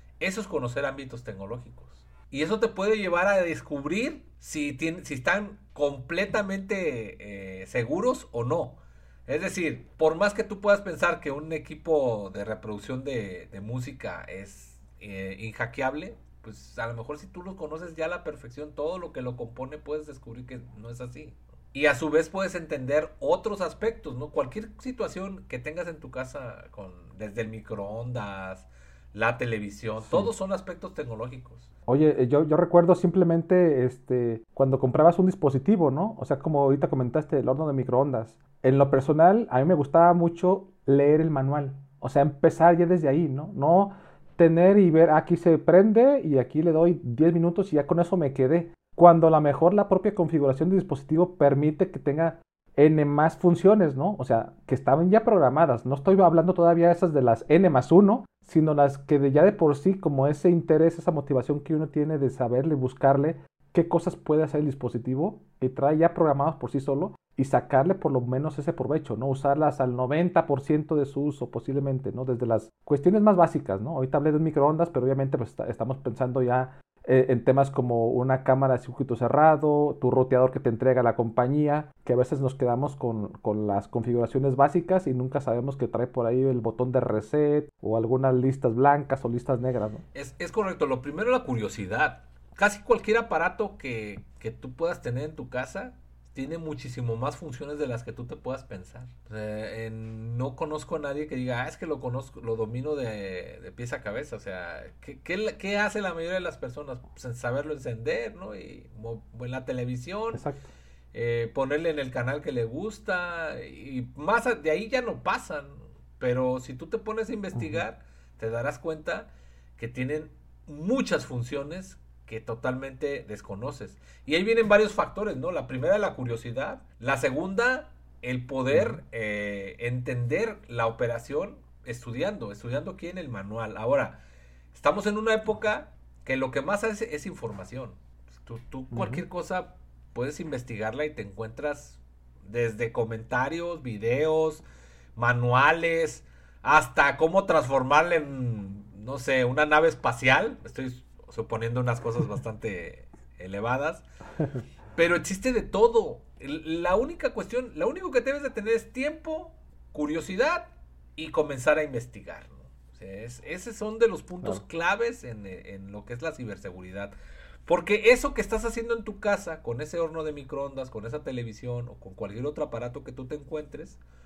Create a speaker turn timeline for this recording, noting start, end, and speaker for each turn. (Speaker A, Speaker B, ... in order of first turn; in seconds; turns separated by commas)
Speaker A: 0.2-31.7, Speaker B: 30.0-30.3, Speaker B: 31.9-90.0, Speaker A: 90.1-110.4, Speaker B: 110.3-110.6, Speaker A: 111.1-134.2, Speaker B: 117.5-117.8, Speaker B: 128.7-129.0, Speaker A: 134.7-144.6, Speaker B: 138.9-139.2, Speaker A: 145.2-154.0, Speaker A: 154.9-167.1, Speaker A: 167.7-174.0